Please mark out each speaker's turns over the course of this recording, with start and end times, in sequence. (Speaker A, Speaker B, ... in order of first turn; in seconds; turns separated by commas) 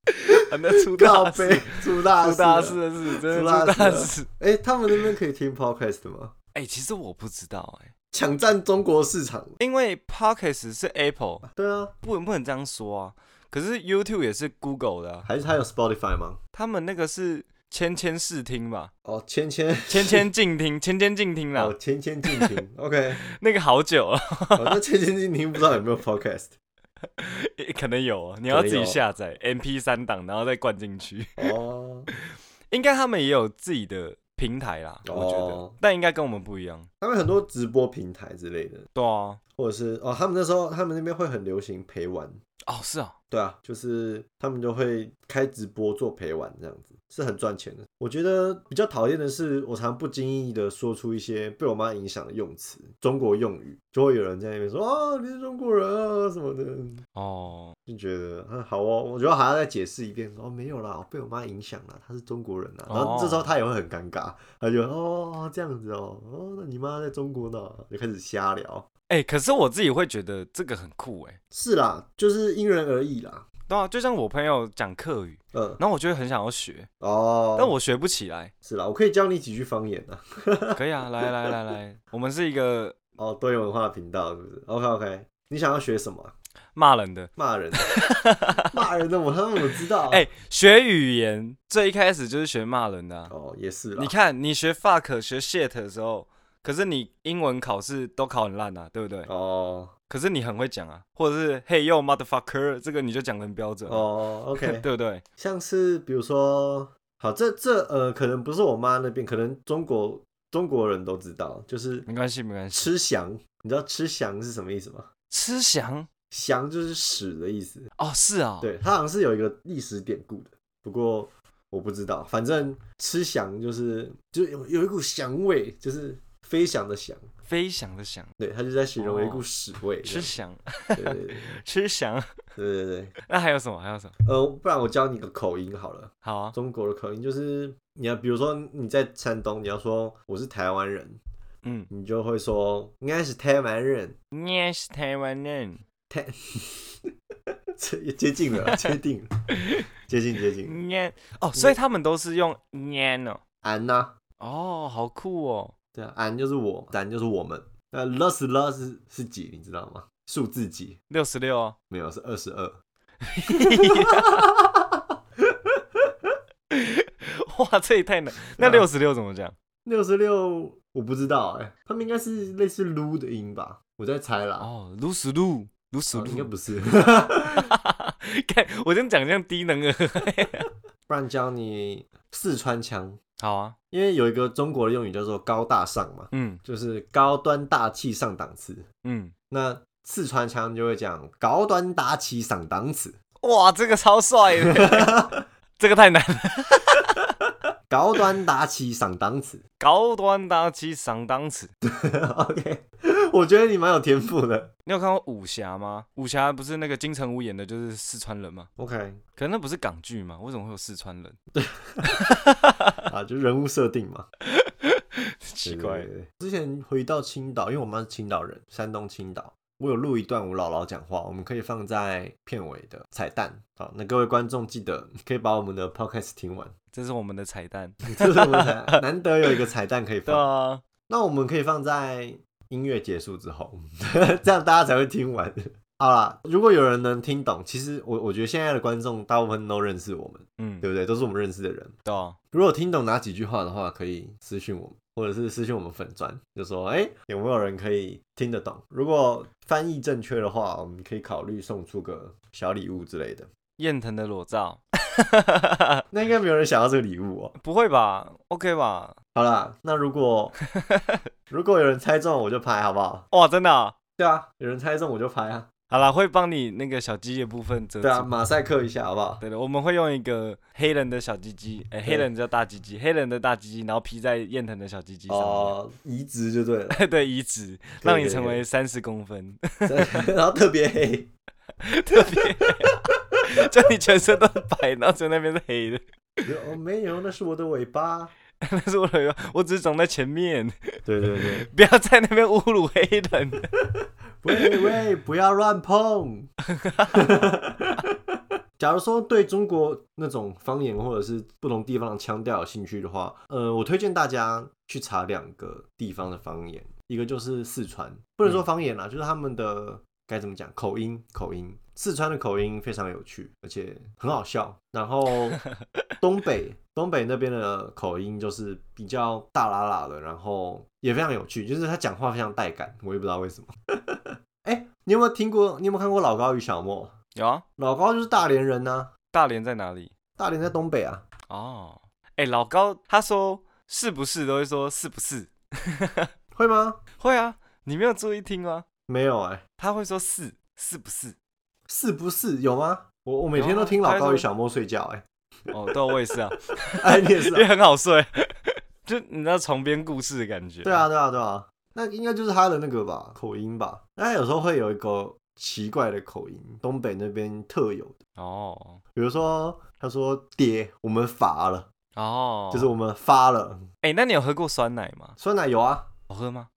Speaker A: 0.2-4.3, Speaker B: 0.8-6.3, Speaker A: 6.5-7.9, Speaker B: 8.1-9.6, Speaker A: 9.6-11.5, Speaker B: 11.5-11.9, Speaker A: 12.0-15.3, Speaker B: 15.2-16.4, Speaker A: 16.5-18.9, Speaker B: 19.1-20.2, Speaker A: 19.9-21.8, Speaker B: 21.6-23.2, Speaker A: 22.3-22.6, Speaker A: 23.2-24.8, Speaker B: 24.6-26.5, Speaker A: 27.2-31.5, Speaker B: 28.5-29.0, Speaker B: 31.4-32.1, Speaker A: 32.1-36.9, Speaker B: 35.0-35.8, Speaker B: 37.0-38.9, Speaker A: 39.0-39.4, Speaker B: 39.6-42.4, Speaker A: 42.7-43.1, Speaker B: 43.3-57.0, Speaker A: 57.1-57.8, Speaker B: 57.9-68.9, Speaker A: 62.9-63.5, Speaker A: 69.1-71.4, Speaker B: 71.5-73.5, Speaker A: 73.7-76.9, Speaker B: 75.5-75.8, Speaker B: 77.0-77.7, Speaker A: 77.6-78.5, Speaker B: 78.6-81.5, Speaker A: 80.8-83.0, Speaker B: 83.2-86.3, Speaker A: 86.8-88.8, Speaker B: 87.4-87.9, Speaker B: 88.6-90.2, Speaker A: 90.1-93.3, Speaker B: 93.3-94.1, Speaker A: 94.0-99.3, Speaker B: 99.3-99.9, Speaker A: 100.1-105.2, Speaker B: 103.9-104.8, Speaker B: 105.4-112.1, Speaker A: 112.1-112.9, Speaker B: 112.7-115.1, Speaker A: 115.3-116.1, Speaker B: 116.3-117.9, Speaker A: 118.0-118.7, Speaker B: 118.6-127.3, Speaker A: 127.5-128.3, Speaker B: 128.4-130.4, Speaker A: 129.0-129.4, Speaker A: 130.0-132.4, Speaker B: 130.9-131.6, Speaker B: 132.6-133.1, Speaker A: 133.3-134.1, Speaker B: 134.2-141.2, Speaker A: 136.2-136.6, Speaker A: 141.6-141.9, Speaker B: 141.9-144.2, Speaker A: 144.3-145.8, Speaker B: 146.1-147.1, Speaker B: 147.8-149.3, Speaker A: 149.6-149.9, Speaker B: 150.0-150.8, Speaker A: 150.6-153.4, Speaker B: 153.6-154.1, Speaker A: 154.4-155.7, Speaker B: 155.9-161.0, Speaker A: 161.1-161.8, Speaker B: 161.9-162.8, Speaker A: 163.2-164.5, Speaker B: 163.5-166.3, Speaker A: 166.7-169.6, Speaker B: 168.6-168.9, Speaker B: 169.8-174.7, Speaker A: 174.6-176.5, Speaker B: 176.1-177.7, Speaker A: 177.4-180.7, Speaker B: 181.1-183.2, Speaker A: 183.4-183.8, Speaker B: 183.9-188.9, Speaker A: 186.3-186.6, Speaker A: 189.0-189.3, Speaker B: 189.5-193.2, Speaker A: 193.4-195.2, Speaker B: 194.6-195.4, Speaker A: 195.8-197.2, Speaker B: 197.9-199.6, Speaker A: 199.8-201.7, Speaker B: 201.8-204.7, Speaker A: 204.9-208.7, Speaker B: 208.8-209.2, Speaker A: 209.4-211.4, Speaker B: 211.6-212.1, Speaker A: 212.0-213.0, Speaker B: 213.1-214.3, Speaker A: 214.5-216.1, Speaker B: 215.6-226.7, Speaker A: 226.9-229.0, Speaker B: 228.1-230.5, Speaker A: 230.3-230.8, Speaker B: 231.1-241.9, Speaker A: 240.6-240.9, Speaker A: 242.1-242.4, Speaker B: 242.5-253.5, Speaker A: 253.8-256.0, Speaker B: 256.1-257.6, Speaker A: 257.6-259.1, Speaker B: 259.3-260.6, Speaker A: 260.8-261.2, Speaker B: 261.5-263.3, Speaker A: 263.3-263.9, Speaker B: 264.2-265.7, Speaker A: 265.9-268.3, Speaker B: 268.0-269.4, Speaker A: 269.4-275.8, Speaker B: 275.3-277.0, Speaker A: 276.9-280.3, Speaker B: 278.0-278.6, Speaker B: 279.9-281.3, Speaker A: 281.8-286.0, Speaker B: 282.2-283.0, Speaker B: 286.4-288.3, Speaker A: 288.6-293.7, Speaker B: 291.1-291.7, Speaker B: 294.4-296.5, Speaker A: 296.8-297.2, Speaker B: 297.1-315.6, Speaker B: 316.2-327.1, Speaker A: 327.4-327.6, Speaker B: 327.8-329.1, Speaker A: 329.3-330.1, Speaker B: 330.4-331.2, Speaker A: 331.5-336.3, Speaker B: 336.5-337.0, Speaker A: 337.2-338.9, Speaker B: 339.1-339.6, Speaker A: 339.8-341.4, Speaker B: 341.9-345.3, Speaker A: 343.6-344.5, Speaker A: 345.7-351.1, Speaker B: 346.9-347.7, Speaker B: 350.8-358.2, Speaker A: 358.4-359.0, Speaker B: 359.1-361.9, Speaker A: 362.1-362.9, Speaker B: 362.7-363.9, Speaker A: 364.0-365.4, Speaker B: 365.4-366.1, Speaker A: 366.3-366.7